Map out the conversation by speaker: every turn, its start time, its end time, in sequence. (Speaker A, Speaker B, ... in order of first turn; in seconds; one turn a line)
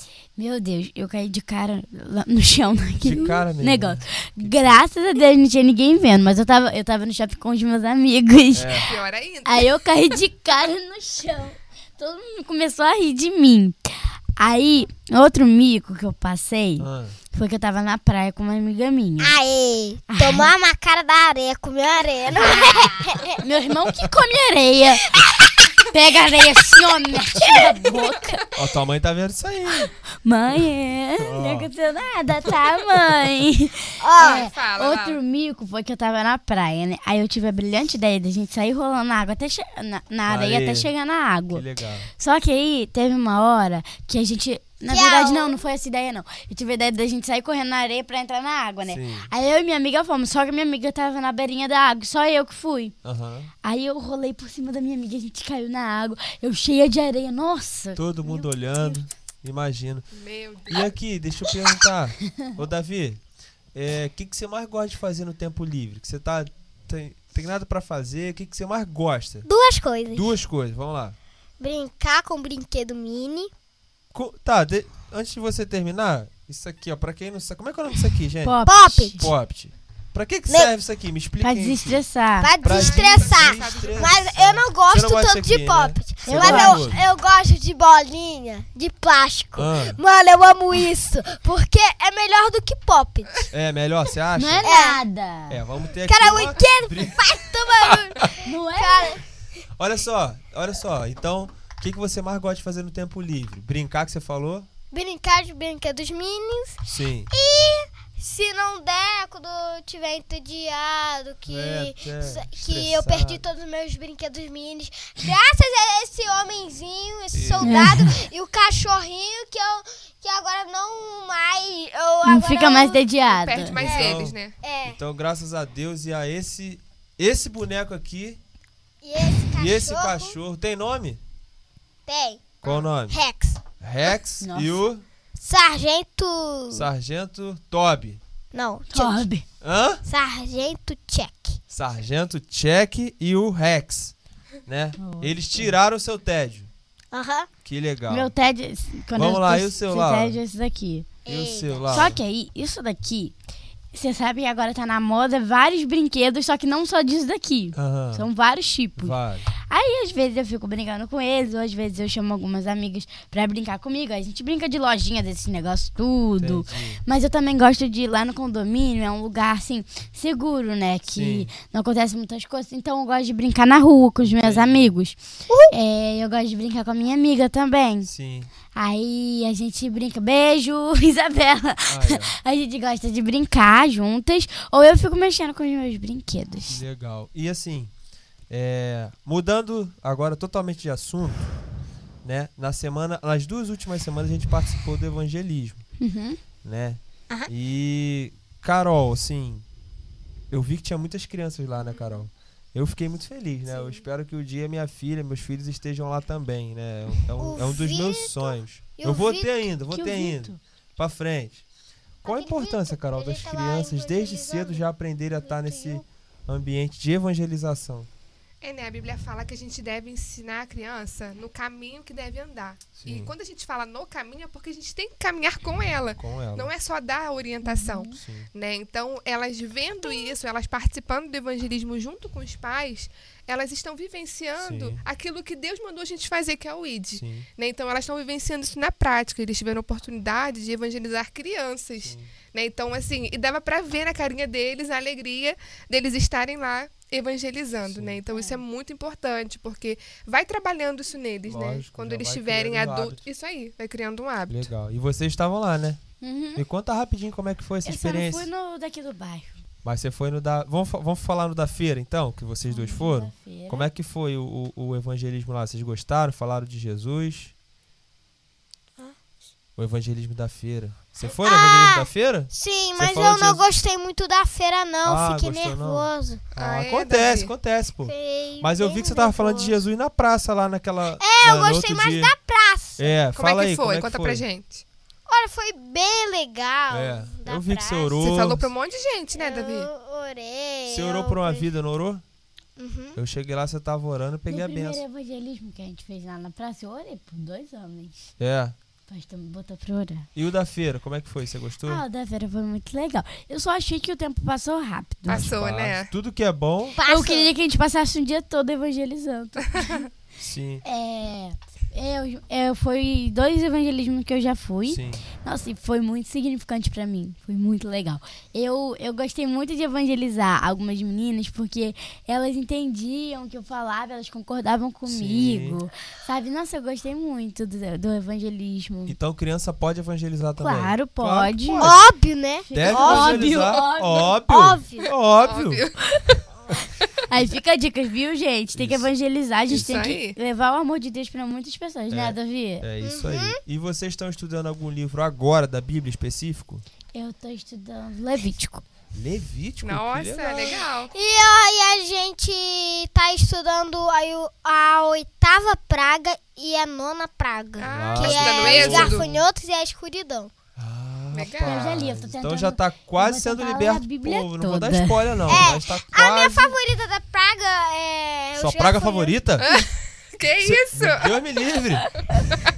Speaker A: 0.3-8.9
Speaker B: 3.0-4.8
Speaker B: 8.5-8.9
Speaker C: 8.8-9.7
Speaker A: 9.4-19.3
Speaker B: 16.8-17.2
Speaker D: 19.2-23.4
Speaker A: 20.1-20.5
Speaker A: 22.3-25.1
Speaker A: 25.9-28.4
Speaker B: 28.5-29.9
Speaker A: 30.2-41.6
Speaker B: 31.2-31.7
Speaker D: 34.0-34.5
Speaker C: 34.2-35.2
Speaker B: 40.3-40.9
Speaker B: 41.5-42.1
Speaker A: 42.1-52.9
Speaker D: 44.9-45.6
Speaker B: 48.9-49.3
Speaker B: 53.0-53.5
Speaker A: 53.6-59.0
Speaker B: 58.0-60.0
Speaker C: 60.1-60.9
Speaker B: 60.7-63.2
Speaker B: 63.7-69.5
Speaker D: 69.4-70.2
Speaker B: 70.1-71.2
Speaker D: 71.6-73.5
Speaker B: 74.1-78.6
Speaker A: 78.4-79.3
Speaker D: 78.7-79.2
Speaker B: 79.2-82.0
Speaker A: 81.4-82.5
Speaker D: 82.4-93.5
Speaker B: 82.6-87.0
Speaker C: 82.6-84.3
Speaker A: 86.2-86.9
Speaker B: 89.5-90.0
Speaker B: 93.5-94.7
Speaker A: 94.3-95.6
Speaker D: 94.6-95.0
Speaker B: 95.5-97.2
Speaker D: 96.0-99.2
Speaker A: 98.4-99.2
Speaker B: 99.8-104.7
Speaker D: 104.9-123.0
Speaker B: 106.8-107.3
Speaker B: 111.5-113.4
Speaker B: 117.3-117.9
Speaker A: 117.6-118.2
Speaker A: 122.2-123.8
Speaker C: 123.3-124.6
Speaker B: 123.8-128.4
Speaker D: 123.8-125.0
Speaker D: 129.0-130.3
Speaker B: 129.5-131.2
Speaker D: 132.1-132.6
Speaker B: 132.6-133.2
Speaker C: 132.6-132.9
Speaker D: 133.1-133.6
Speaker B: 133.8-135.0
Speaker A: 134.4-134.8
Speaker D: 135.3-136.9
Speaker B: 136.7-138.2
Speaker D: 138.5-139.2
Speaker A: 138.9-139.4
Speaker B: 139.6-140.0
Speaker D: 140.0-141.6
Speaker B: 141.7-144.1
Speaker B: 144.7-146.7
Speaker A: 145.0-145.7
Speaker D: 147.1-147.5
Speaker B: 147.6-148.3
Speaker A: 148.1-151.1
Speaker B: 149.2-150.4
Speaker D: 151.2-152.2
Speaker B: 151.2-152.2
Speaker A: 151.9-153.3
Speaker A: 153.9-159.1
Speaker B: 157.7-158.3
Speaker B: 159.0-159.5
Speaker A: 159.7-175.2
Speaker B: 166.4-167.0
Speaker B: 171.1-171.5
Speaker B: 174.2-174.9
Speaker D: 175.5-175.7
Speaker A: 175.7-178.1
Speaker B: 178.1-178.5
Speaker A: 178.7-186.8
Speaker B: 181.9-182.3
Speaker B: 186.7-187.9
Speaker B: 188.5-191.5
Speaker B: 192.2-195.8
Speaker A: 196.0-196.4
Speaker B: 196.6-199.6
Speaker B: 200.5-211.6
Speaker C: 201.8-202.2
Speaker D: 207.4-209.7
Speaker A: 209.9-210.6
Speaker D: 212.2-214.8
Speaker B: 212.2-218.1
Speaker D: 215.4-216.0
Speaker C: 218.6-254.7
Speaker B: 222.9-223.3
Speaker B: 226.2-226.7
Speaker A: 227.6-228.2
Speaker B: 228.2-228.5
Speaker B: 234.6-235.0
Speaker B: 237.1-237.5
Speaker B: 242.0-242.3
Speaker B: 247.9-248.2
Speaker A: 248.3-248.6
Speaker B: 251.5-253.2
Speaker B: 254.5-256.0
Speaker A: 256.2-256.6
Speaker B: 256.6-258.5
Speaker A: 257.8-259.6
Speaker B: 259.8-267.5
Speaker A: 262.7-263.9
Speaker B: 269.8-273.6
Speaker D: 271.2-276.4
Speaker B: 275.0-282.3
Speaker C: 276.6-277.5
Speaker D: 278.0-279.8
Speaker D: 281.2-283.1
Speaker B: 283.0-284.4
Speaker C: 283.3-284.8
Speaker D: 285.3-288.2
Speaker B: 286.9-288.7
Speaker C: 288.2-289.9
Speaker D: 289.4-291.7
Speaker B: 290.9-292.2
Speaker D: 292.8-293.2
Speaker B: 293.1-295.0
Speaker A: 294.5-298.3
Speaker B: 298.4-298.7
Speaker A: 299.1-300.3
Speaker B: 300.3-302.0
Speaker A: 301.8-305.5
Speaker C: 305.3-306.1
Speaker B: 305.3-307.0
Speaker D: 306.9-307.5
Speaker A: 307.1-310.0
Speaker C: 309.7-310.1
Speaker B: 310.4-310.8
Speaker A: 310.8-329.2
Speaker B: 314.9-315.2
Speaker B: 325.1-325.8
Speaker B: 329.1-332.0
Speaker A: 330.6-332.0
Speaker D: 331.8-333.6
Speaker A: 332.6-334.3
Speaker B: 332.7-335.9
Speaker D: 334.5-335.1
Speaker C: 335.4-336.0
Speaker A: 337.3-342.8
Speaker B: 338.7-339.1
Speaker C: 339.7-340.4
Speaker B: 342.1-346.8
Speaker D: 343.0-343.6
Speaker A: 347.1-348.8
Speaker B: 349.1-350.6
Speaker C: 349.8-351.1
Speaker D: 350.7-360.5
Speaker C: 357.8-359.3
Speaker B: 357.8-359.4
Speaker B: 360.8-366.7
Speaker C: 361.3-361.9
Speaker A: 361.6-365.4
Speaker D: 365.5-369.4
Speaker B: 368.6-369.7
Speaker C: 369.6-371.4
Speaker B: 370.6-372.1
Speaker A: 372.1-372.4